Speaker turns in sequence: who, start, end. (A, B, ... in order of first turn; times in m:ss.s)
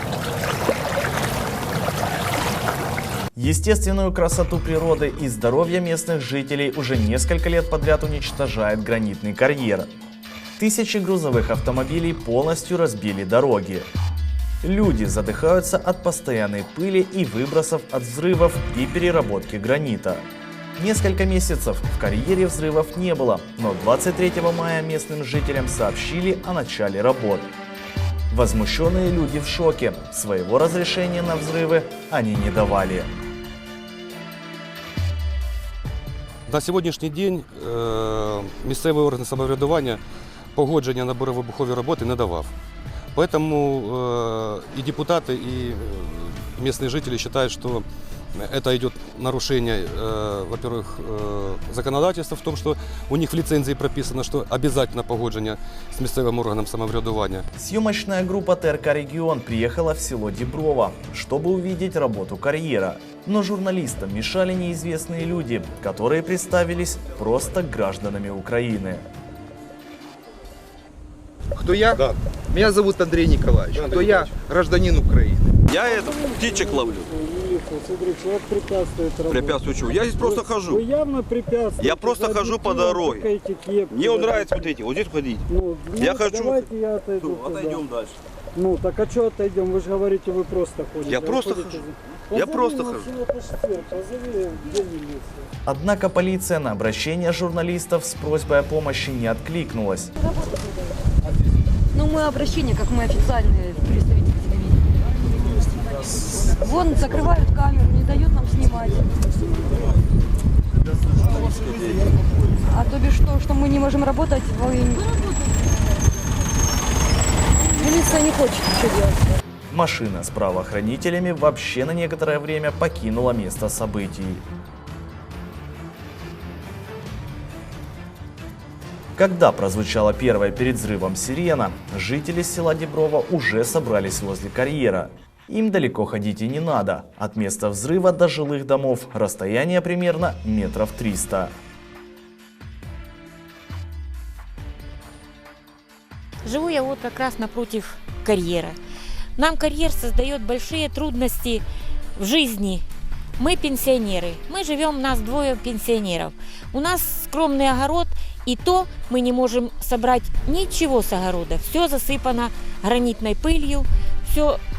0:03.3-0:09.9 A
0:10.6-0:13.9 A
0:14.6-0:20.2 A
0:20.8-0:27.5 A
0:28.3-0:33.1 A
0:36.5-0:40.0 B
0:40.5-0:42.5 B
0:43.1-0:47.8 B
0:48.4-0:57.4 B
0:57.6-1:09.0 A
1:11.6-1:12.0 C
1:12.5-1:13.1 C
1:13.0-1:14.3 D
1:13.7-1:17.0 C
1:15.6-1:17.1 D
1:15.8-1:19.5 E
1:19.3-1:20.8 D
1:20.1-1:20.8 C
1:20.2-1:24.4 E
1:21.8-1:23.2 C
1:21.8-1:23.3 D
1:23.9-1:25.4 D
1:23.9-1:24.6 C
1:25.5-1:27.8 E
1:26.0-1:26.6 C
1:26.0-1:26.6 D
1:27.2-1:27.8 C
1:27.3-1:28.2 D
1:28.6-1:35.4 E
1:31.1-1:31.8 C
1:31.2-1:31.8 D
1:32.3-1:33.1 D
1:32.4-1:33.1 C
1:35.6-1:40.1 A
1:41.9-1:44.8 F
1:46.5-1:49.1 F
1:52.7-1:55.0 F
1:57.8-1:59.1 F
1:59.7-2:04.4 A
2:09.2-2:21.5 A
2:26.4-2:28.8 G
2:29.4-2:31.6 G
2:32.2-2:32.8 G
2:33.4-2:44.6 G